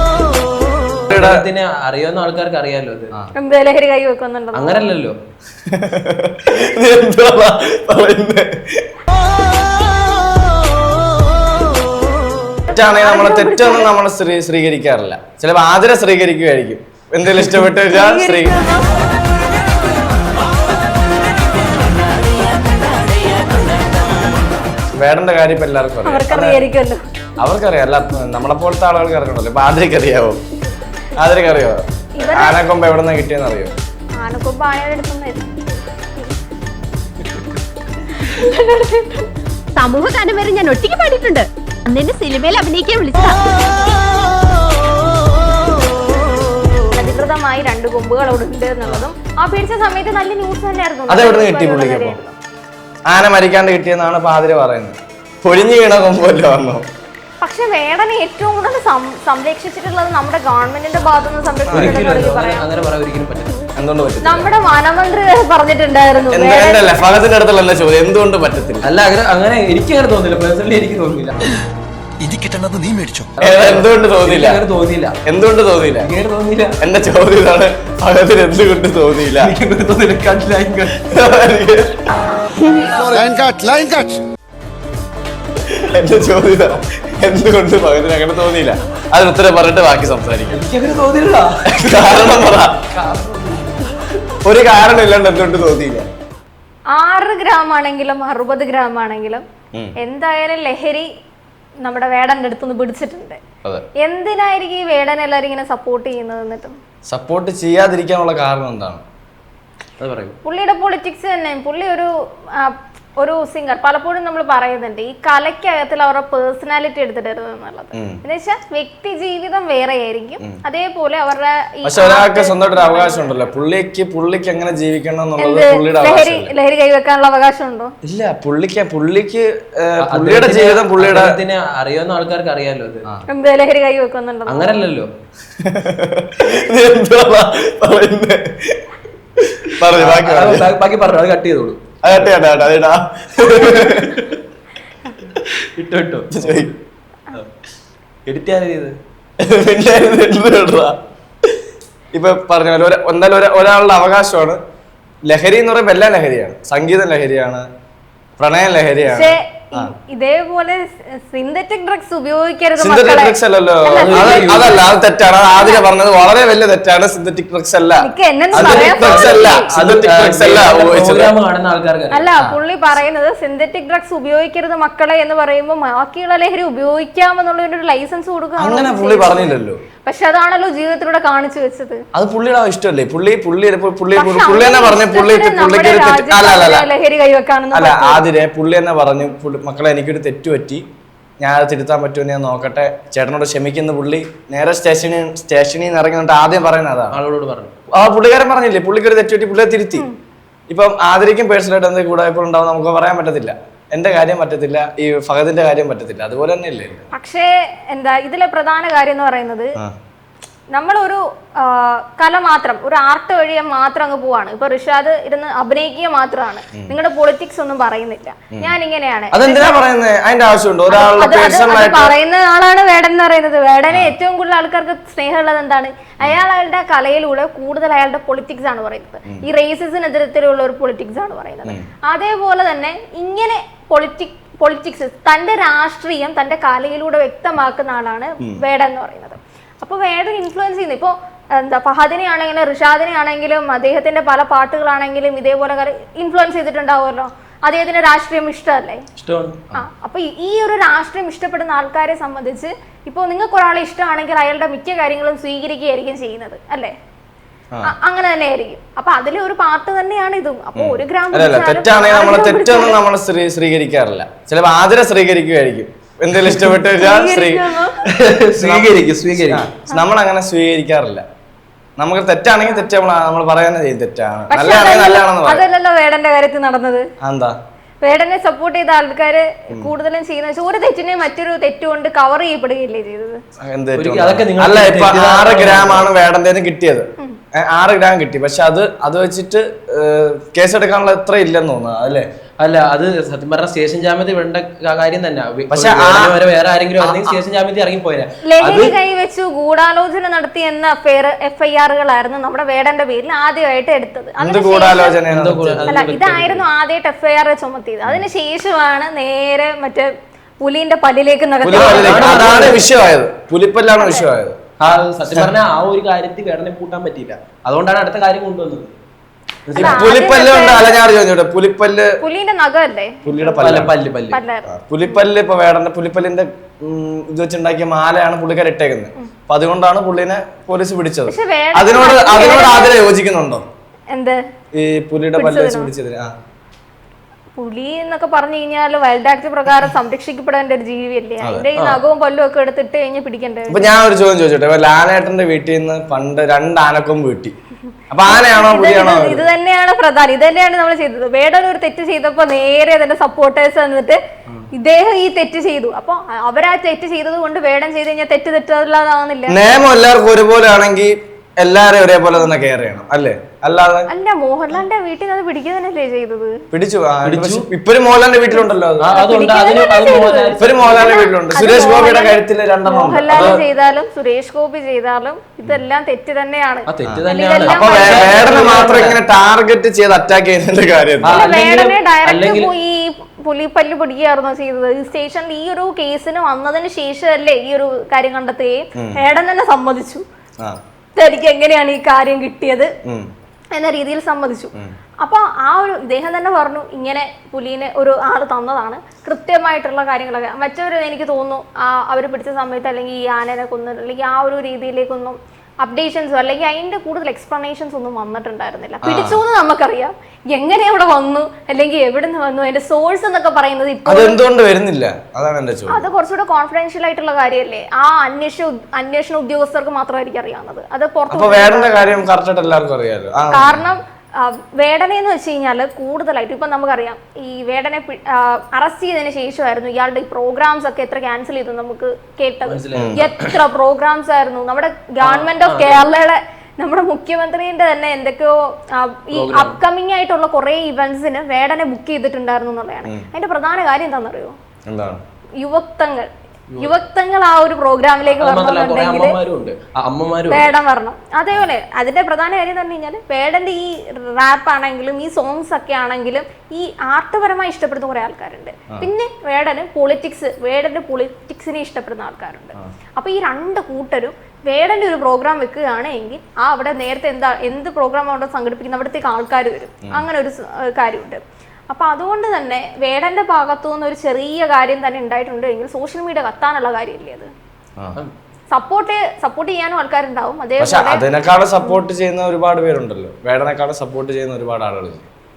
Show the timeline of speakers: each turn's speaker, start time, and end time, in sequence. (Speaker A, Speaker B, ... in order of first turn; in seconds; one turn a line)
Speaker A: 1.1-1.4
Speaker B: 1.1-3.1
Speaker C: 3.4-4.8
Speaker B: 4.5-5.1
Speaker A: 5.7-8.9
Speaker C: 12.7-13.9
Speaker A: 12.7-18.6
Speaker C: 17.9-18.9
Speaker A: 25.0-26.6
Speaker C: 26.0-27.0
Speaker A: 27.4-30.4
Speaker A: 31.2-33.7
Speaker C: 32.2-32.6
Speaker C: 34.1-35.8
Speaker C: 38.1-39.3
Speaker D: 39.7-43.4
Speaker C: 46.9-52.3
Speaker A: 51.1-52.2
Speaker A: 53.1-56.8
Speaker C: 57.4-62.6
Speaker A: 61.7-62.1
Speaker B: 61.7-63.6
Speaker A: 63.8-64.5
Speaker C: 64.2-67.1
Speaker A: 66.3-68.8
Speaker B: 68.8-71.4
Speaker E: 72.2-73.3
Speaker B: 73.4-75.2
Speaker A: 73.4-74.6
Speaker A: 75.2-76.1
Speaker B: 76.0-76.8
Speaker A: 76.8-79.5
Speaker B: 79.4-81.1
Speaker A: 81.0-82.1
Speaker B: 82.6-83.3
Speaker E: 83.0-84.2
Speaker A: 85.8-90.6
Speaker B: 90.5-93.9
Speaker A: 91.7-92.8
Speaker A: 94.4-96.1
Speaker C: 96.9-99.4
Speaker C: 100.0-101.1
Speaker C: 101.8-103.4
Speaker C: 104.0-106.7
Speaker A: 107.1-109.0
Speaker B: 110.0-110.3
Speaker C: 110.4-123.3
Speaker A: 117.9-118.2
Speaker A: 121.8-126.5
Speaker C: 125.4-127.9
Speaker A: 128.0-131.3
Speaker B: 130.0-133.1
Speaker C: 133.3-134.8
Speaker B: 134.5-135.1
Speaker A: 135.6-138.8
Speaker A: 139.4-140.7
Speaker B: 139.9-141.8
Speaker A: 142.0-144.2
Speaker B: 143.6-144.3
Speaker B: 145.3-146.7
Speaker A: 146.3-146.7
Speaker B: 148.2-148.9
Speaker A: 149.4-150.9
Speaker A: 152.1-154.6
Speaker A: 155.3-157.7
Speaker A: 158.4-159.9
Speaker C: 159.1-164.8
Speaker A: 162.8-171.3
Speaker B: 163.9-164.9
Speaker C: 165.5-165.8
Speaker C: 168.0-169.7
Speaker B: 168.5-172.3
Speaker C: 172.1-182.0
Speaker A: 178.6-179.8
Speaker A: 182.1-186.9
Speaker C: 184.1-188.2
Speaker A: 187.7-190.8
Speaker A: 191.4-197.2
Speaker B: 197.1-197.7
Speaker A: 197.9-200.1
Speaker A: 200.7-207.1
Speaker C: 207.1-209.7
Speaker C: 210.7-219.8
Speaker A: 219.3-222.1
Speaker C: 220.9-249.0
Speaker B: 249.2-249.6
Speaker C: 249.7-256.9
Speaker C: 257.8-263.0
Speaker A: 260.8-267.8
Speaker C: 266.9-268.0
Speaker B: 268.0-269.7
Speaker A: 268.6-268.9
Speaker A: 269.5-271.2
Speaker A: 272.0-275.6
Speaker C: 274.5-277.1
Speaker A: 277.2-277.5
Speaker C: 278.0-283.4
Speaker A: 283.6-292.2
Speaker B: 283.9-286.1
Speaker B: 292.6-299.0
Speaker A: 295.7-296.4
Speaker A: 297.0-297.4
Speaker C: 298.4-305.2
Speaker A: 304.4-306.0
Speaker B: 305.3-306.6
Speaker C: 305.9-310.1
Speaker C: 310.6-312.4
Speaker A: 311.6-314.6
Speaker B: 311.7-312.8
Speaker C: 313.9-314.2
Speaker B: 314.8-319.0
Speaker B: 319.7-320.0
Speaker A: 319.7-322.2
Speaker C: 319.8-321.0
Speaker C: 322.2-323.6
Speaker A: 323.2-323.9
Speaker B: 323.6-324.4
Speaker C: 324.3-325.1
Speaker A: 324.7-333.6
Speaker C: 331.3-333.0
Speaker C: 334.1-334.4
Speaker A: 334.7-336.3
Speaker C: 335.4-335.9
Speaker C: 337.6-343.9
Speaker A: 341.4-341.7
Speaker B: 341.8-342.0
Speaker A: 343.7-347.5
Speaker A: 348.1-349.4
Speaker C: 348.3-354.2
Speaker C: 354.7-359.6
Speaker A: 359.5-364.1
Speaker C: 364.1-366.6
Speaker A: 366.7-369.1
Speaker B: 367.2-367.7
Speaker B: 369.0-371.1
Speaker C: 369.1-378.8
Speaker A: 370.6-373.6
Speaker B: 373.3-373.6
Speaker B: 376.9-379.2
Speaker A: 377.0-381.4
Speaker B: 381.2-382.7
Speaker C: 381.3-390.2
Speaker C: 391.1-392.9
Speaker C: 393.7-414.4
Speaker A: 409.0-409.4
Speaker A: 414.1-416.1
Speaker C: 415.9-422.2
Speaker A: 421.3-423.9
Speaker C: 423.5-444.5
Speaker B: 432.6-433.6
Speaker A: 432.9-433.2
Speaker B: 435.2-436.1
Speaker B: 439.3-439.8
Speaker A: 444.9-445.2
Speaker C: 445.6-449.4
Speaker B: 446.7-447.0
Speaker B: 448.3-450.7
Speaker C: 450.5-477.5
Speaker C: 478.7-481.2
Speaker A: 480.8-485.2